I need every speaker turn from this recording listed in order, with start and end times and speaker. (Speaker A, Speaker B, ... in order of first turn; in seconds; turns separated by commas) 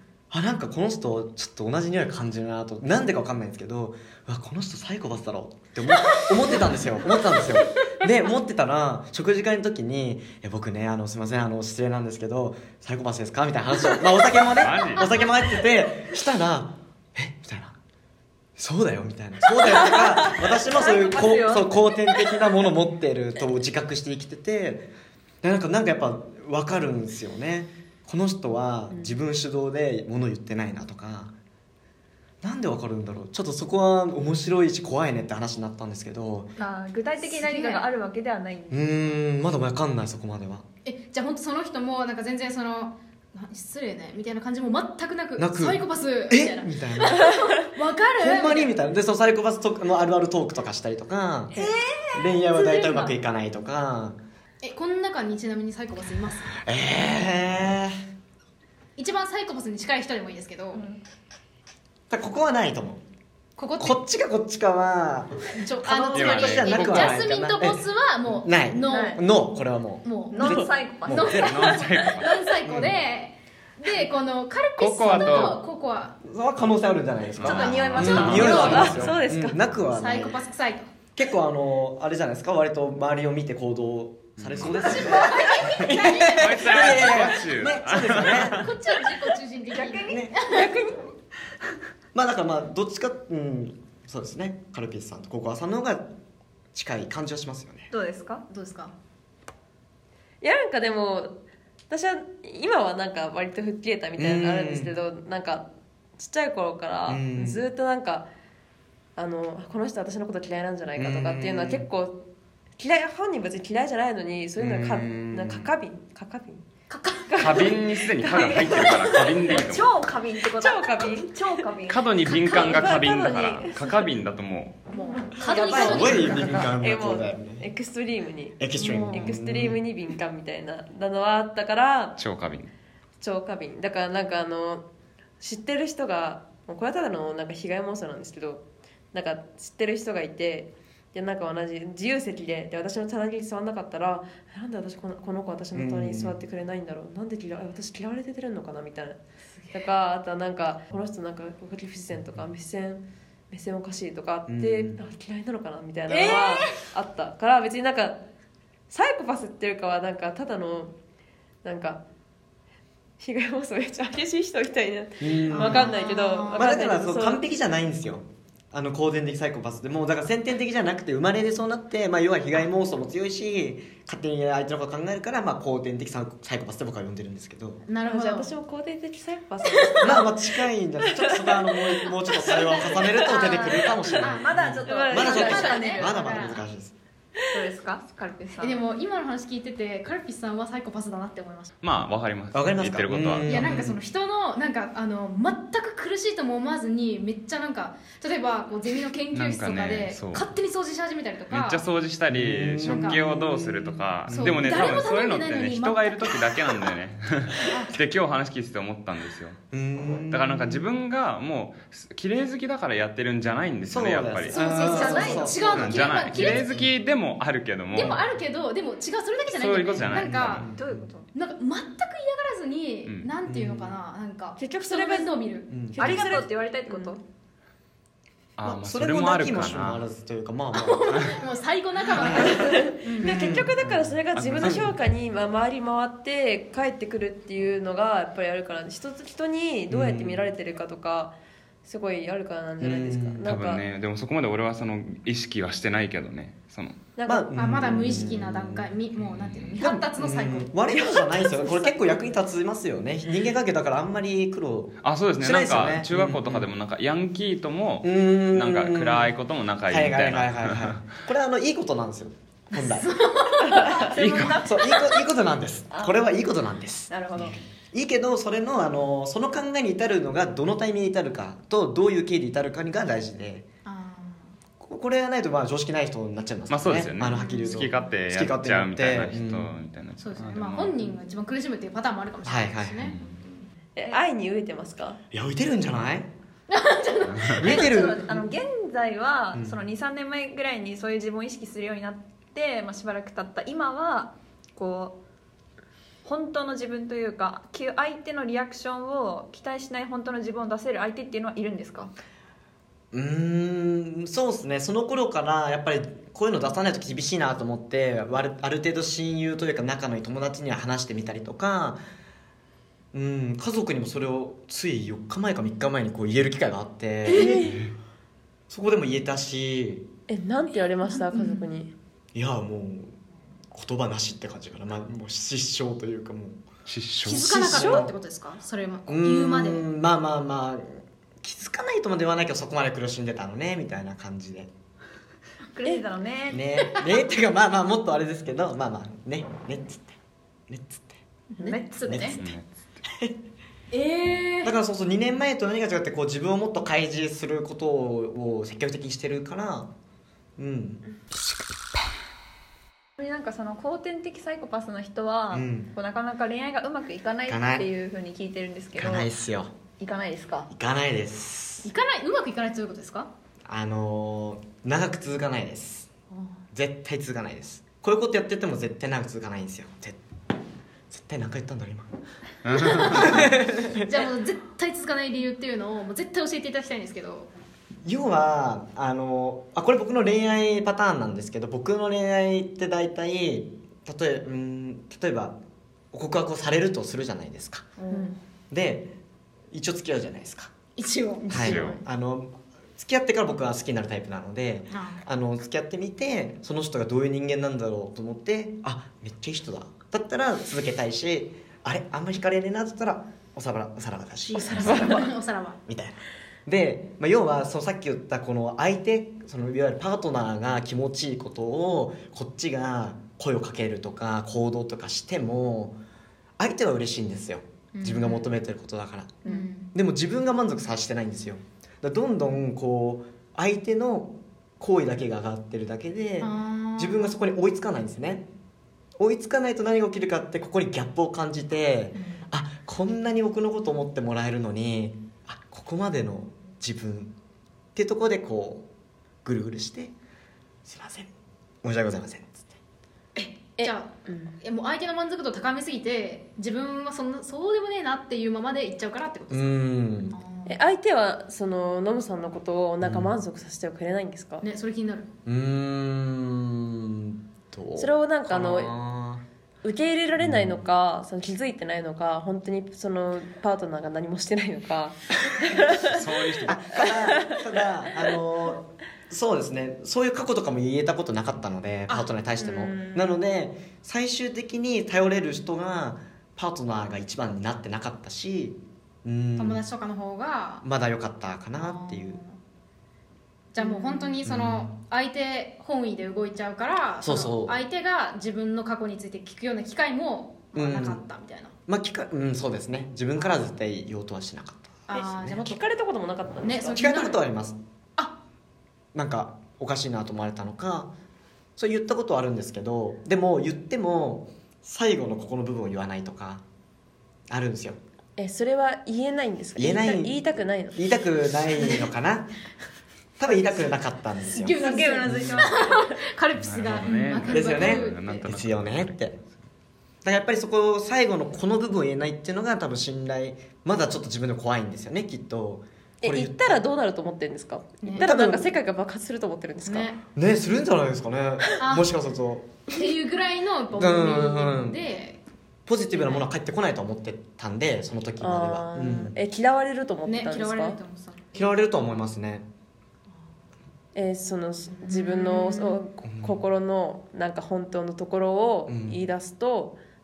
Speaker A: 0.3-17.8, Speaker B: 14.5-15.2, Speaker A: 18.6-24.9, Speaker C: 20.3-22.2, Speaker A: 25.4-31.3, Speaker A: 32.4-36.5, Speaker C: 36.6-39.1, Speaker D: 37.2-37.9, Speaker A: 38.7-40.7, Speaker D: 40.9-48.8, Speaker A: 45.4-47.4, Speaker A: 48.2-54.2, Speaker C: 51.5-52.9, Speaker D: 52.8-53.1, Speaker D: 54.6-56.6, Speaker A: 56.6-58.0, Speaker D: 59.0-60.8, Speaker C: 60.7-61.0, Speaker A: 62.1-63.0, Speaker D: 63.6-64.0, Speaker A: 63.8-71.8, Speaker D: 65.5-69.2, Speaker B: 66.1-67.2, Speaker C: 68.9-69.2, Speaker D: 70.0-76.2, Speaker C: 70.3-71.8, Speaker B: 71.2-72.5, Speaker A: 72.6-73.0, Speaker B: 74.8-75.6, Speaker A: 76.2-80.4, Speaker B: 77.4-79.2, Speaker C: 77.4-79.0, Speaker D: 77.5-78.9, Speaker E: 78.3-79.6, Speaker D: 79.9-80.9, Speaker A: 81.2-88.7, Speaker B: 84.4-85.0, Speaker D: 84.7-86.0, Speaker C: 85.0-87.0, Speaker B: 86.3-88.7, Speaker D: 88.4-90.8, Speaker C: 89.7-91.0, Speaker A: 90.1-90.4, Speaker A: 92.1-96.1, Speaker A: 96.7-97.9, Speaker C: 97.9-98.5, Speaker D: 98.5-98.9, Speaker E: 100.4-101.3, Speaker E: 101.9-105.7, Speaker A: 104.2-104.9, Speaker E: 106.2-108.3, Speaker A: 107.1-107.6, Speaker E: 109.2-112.2, Speaker A: 111.0-111.9, Speaker E: 112.8-116.7, Speaker A: 114.6-115.7, Speaker D: 116.9-117.7, Speaker E: 117.2-119.2, Speaker B: 117.4-120.0, Speaker C: 118.2-122.9, Speaker E: 120.5-121.7, Speaker B: 121.9-124.8, Speaker E: 122.2-124.1, Speaker D: 124.9-126.7, Speaker E: 125.1-132.2, Speaker A: 125.6-127.7, Speaker A: 128.6-129.8, Speaker D: 128.8-129.3, Speaker B: 132.2-132.7, Speaker E: 133.2-134.8, Speaker E: 135.4-149.2, Speaker A: 145.7-146.4, Speaker E: 149.7-158.2, Speaker A: 154.5-155.0, Speaker D: 156.1-156.8, Speaker E: 158.9-160.9, Speaker E: 161.6-162.0, Speaker E: 163.2-167.4, Speaker A: 165.2-166.0, Speaker D: 165.5-166.8, Speaker A: 166.5-177.8, Speaker D: 177.9-178.5, Speaker E: 178.0-180.3, Speaker D: 179.7-180.2, Speaker A: 180.0-186.9, Speaker E: 181.0-184.0, Speaker C: 183.2-186.6, Speaker D: 183.3-186.6, Speaker E: 184.9-185.9, Speaker C: 187.5-188.8, Speaker D: 188.6-191.7, Speaker B: 191.8-193.7, Speaker A: 192.5-194.0, Speaker D: 193.4-201.9, Speaker B: 199.3-200.5, Speaker B: 201.5-209.6, Speaker A: 202.3-204.8, Speaker D: 202.8-203.2, Speaker D: 204.3-206.9, Speaker D: 207.6-207.9, Speaker A: 209.7-210.9, Speaker B: 210.3-214.6, Speaker A: 213.9-216.9, Speaker D: 214.5-216.9, Speaker C: 214.7-215.8, Speaker B: 215.6-218.2, Speaker D: 217.9-220.7, Speaker A: 218.0-218.2, Speaker B: 219.5-220.7, Speaker A: 220.0-221.0, Speaker C: 220.7-221.3, Speaker D: 221.3-225.9, Speaker A: 223.5-224.0, Speaker E: 224.6-227.2, Speaker A: 225.7-226.3, Speaker C: 225.9-227.2, Speaker B: 228.6-230.1, Speaker A: 228.6-231.4, Speaker D: 230.7-233.4, Speaker A: 232.1-234.9, Speaker E: 232.3-243.8, Speaker B: 234.3-234.9, Speaker A: 239.9-240.4, Speaker A: 242.8-243.4, Speaker B: 243.4-247.0, Speaker E: 247.2-247.5, Speaker A: 247.3-249.0, Speaker D: 247.5-250.7, Speaker B: 249.2-249.8, Speaker A: 249.8-256.7, Speaker E: 250.9-252.1, Speaker B: 255.0-261.1, Speaker A: 258.0-259.3, Speaker A: 259.9-263.2, Speaker D: 262.8-264.1, Speaker C: 263.7-265.2, Speaker A: 263.7-273.7, Speaker B: 264.2-264.6, Speaker C: 265.9-266.4, Speaker C: 267.1-267.6, Speaker D: 273.9-274.5, Speaker A: 274.8-279.7, Speaker B: 276.7-281.1, Speaker D: 277.3-277.9, Speaker D: 280.2-283.7, Speaker A: 282.4-283.1, Speaker B: 283.0-283.3, Speaker E: 284.0-285.2, Speaker A: 285.3-286.3, Speaker D: 286.7-287.9, Speaker B: 287.3-287.6, Speaker A: 287.5-288.4, Speaker C: 287.6-295.2, Speaker A: 289.5-289.8, Speaker C: 296.2-302.1, Speaker A: 303.1-312.0, Speaker A: 313.1-317.8, Speaker E: 317.3-317.8, Speaker D: 317.3-317.6, Speaker A: 318.7-320.1, Speaker E: 320.3-321.9, Speaker D: 321.1-321.6, Speaker A: 322.3-323.2, Speaker A: 323.7-326.6, Speaker B: 326.9-327.7, Speaker D: 327.2-329.9, Speaker A: 327.3-328.1, Speaker E: 327.7-328.1, Speaker A: 329.1-334.7, Speaker C: 335.7-336.6, Speaker A: 336.5-340.2, Speaker A: 340.7-341.2, Speaker D: 341.6-342.4, Speaker C: 341.6-342.4, Speaker A: 342.1-342.4, Speaker B: 342.4-342.7, Speaker A: 343.1-343.3, Speaker D: 343.9-344.7, Speaker A: 344.6-349.9, Speaker A: 350.6-351.0, Speaker C: 353.2-359.3, Speaker A: 355.5-355.9, Speaker A: 357.5-357.9, Speaker A: 359.0-359.7, Speaker C: 360.0-360.7, Speaker A: 360.7-361.9, Speaker D: 361.8-363.3, Speaker A: 363.7-366.1, Speaker A: 366.7-370.2, Speaker A: 371.1-372.1, Speaker B: 372.6-373.4, Speaker D: 372.7-377.5, Speaker A: 372.8-374.3, Speaker A: 378.0-385.6, Speaker A: 386.1-387.9, Speaker D: 388.0-388.4, Speaker A: 388.7-389.1, Speaker A: 389.7-390.8, Speaker D: 391.0-392.0, Speaker A: 391.5-405.3, Speaker B: 391.5-392.0, Speaker D: 394.9-395.2, Speaker D: 404.5-405.8, Speaker E: 405.0-405.2, Speaker A: 405.9-416.0, Speaker A: 416.6-419.4, Speaker D: 417.9-418.6, Speaker D: 419.4-419.9, Speaker A: 419.9-428.5, Speaker D: 426.4-427.4, Speaker A: 429.2-437.3, Speaker D: 432.1-432.4, Speaker A: 437.9-438.9, Speaker A: 439.4-440.1, Speaker A: 440.8-441.3, Speaker A: 441.8-442.7, Speaker E: 443.4-444.6, Speaker D: 443.7-449.8, Speaker A: 449.5-450.4, Speaker D: 450.3-450.8, Speaker E: 450.7-454.7, Speaker A: 453.0-453.3, Speaker D: 454.6-455.3, Speaker A: 455.5-459.4, Speaker E: 458.0-458.9, Speaker E: 459.8-467.6, Speaker A: 460.4-460.8, Speaker A: 465.6-479.8, Speaker B: 466.0-466.9, Speaker E: 472.6-473.4, Speaker D: 479.6-480.9, Speaker A: 480.8-482.4, Speaker D: 481.8-482.6, Speaker D: 483.7-491.8, Speaker E: 483.8-484.4, Speaker A: 484.4-485.0, Speaker A: 487.2-487.8, Speaker A: 490.8-491.2, Speaker A: 491.9-495.6, Speaker D: 493.4-493.6, Speaker D: 495.1-495.8, Speaker E: 495.1-497.4, Speaker D: 496.6-497.4, Speaker A: 496.9-497.8, Speaker A: 499.1-501.1, Speaker A: 501.8-506.6, Speaker A: 507.5-508.0, Speaker E: 508.4-511.1, Speaker A: 509.8-510.4, Speaker A: 510.9-512.5, Speaker A: 513.4-515.6, Speaker D: 514.5-518.5, Speaker C: 514.8-516.1, Speaker B: 516.6-519.5, Speaker A: 517.5-519.4, Speaker A: 520.2-526.9, Speaker E: 526.2-530.1, Speaker D: 528.0-528.3, Speaker A: 528.1-528.6, Speaker D: 529.9-530.2, Speaker A: 530.3-532.8, Speaker D: 531.8-532.1, Speaker D: 532.9-535.4, Speaker A: 533.9-535.0, Speaker A: 535.9-539.4, Speaker D: 536.1-536.5, Speaker E: 538.4-541.0, Speaker D: 540.3-541.5, Speaker A: 541.5-542.7, Speaker E: 544.1-550.0, Speaker D: 545.0-546.0, Speaker A: 546.2-546.6, Speaker A: 548.9-549.2